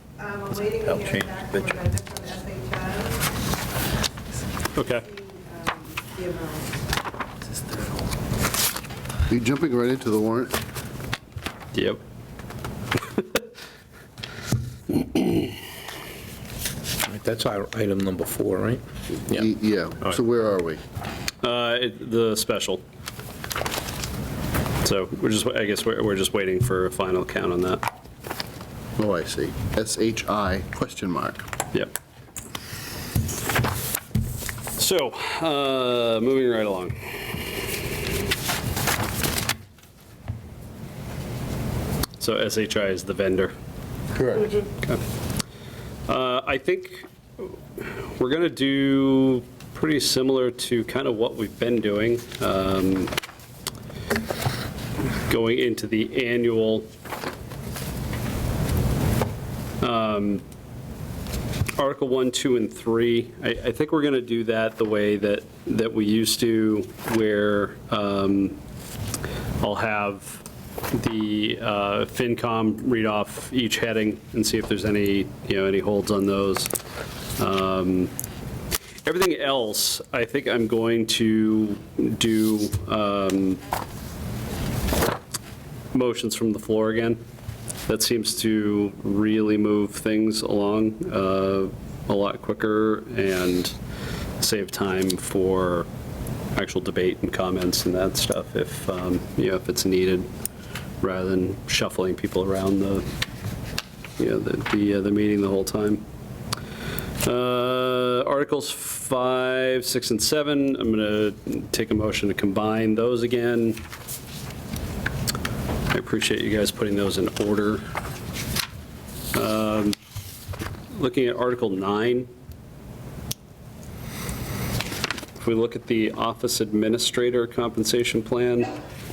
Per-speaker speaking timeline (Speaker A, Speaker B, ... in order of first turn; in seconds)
Speaker A: 0.2-3.2, 5.0-6.7
Speaker B: 4.8-5.1, 11.7-12.0, 15.0-15.5, 21.4-22.8, 24.8-27.8, 34.8-37.8, 42.2-43.5, 46.1-53.1, 55.3-56.9, 59.8-60.4, 61.8-68.6, 69.6-76.7, 77.4-78.1, 79.0-83.6, 85.9-87.2, 87.9-93.8, 94.4-95.9, 96.5-100.3, 101.0-103.0, 104.2-106.0, 107.2-113.8, 115.9-117.9, 119.3-120.0, 120.9-122.3, 125.4-128.7
Speaker C: 9.3-10.6, 19.3-20.8, 29.0-31.4, 44.1-44.5
Speaker D: 17.1-19.5